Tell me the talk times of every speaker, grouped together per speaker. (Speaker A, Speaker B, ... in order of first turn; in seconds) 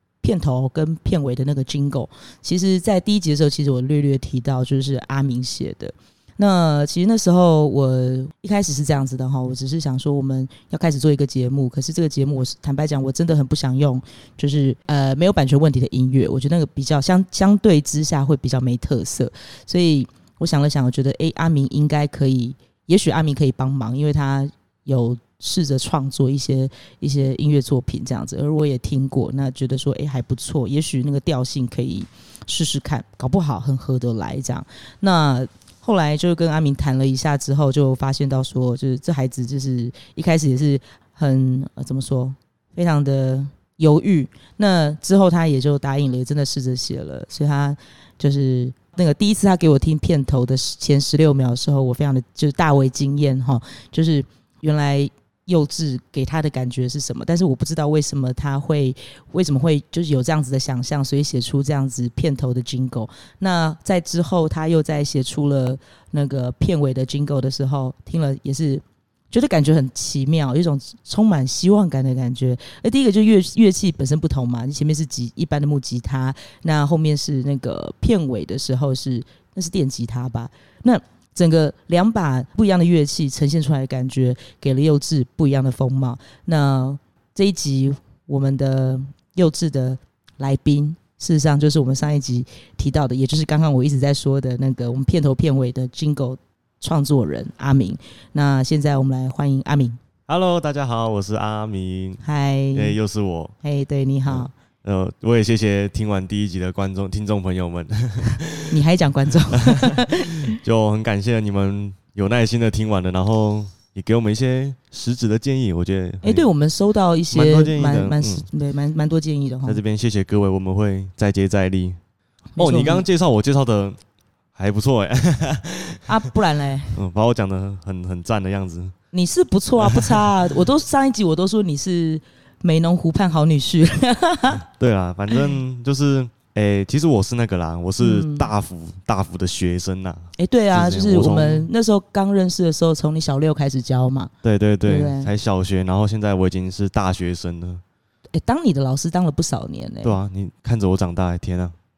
Speaker A: 0.2-100.0, 102.2-103.0, 103.6-104.5, 108.7-110.5, 116.2-119.8, 122.6-123.0, 126.0-127.0, 129.1-134.6, 138.0-138.5, 140.4-144.3, 144.8-145.3, 148.3-150.2
Speaker B: 100.3-102.2, 102.7-103.5, 104.3-108.8, 109.5-116.5, 117.3-118.4, 119.7-122.0, 122.6-124.0, 124.5-126.2, 126.9-128.9, 129.8-130.3, 134.6-141.7, 144.4-147.8, 150.0-151.7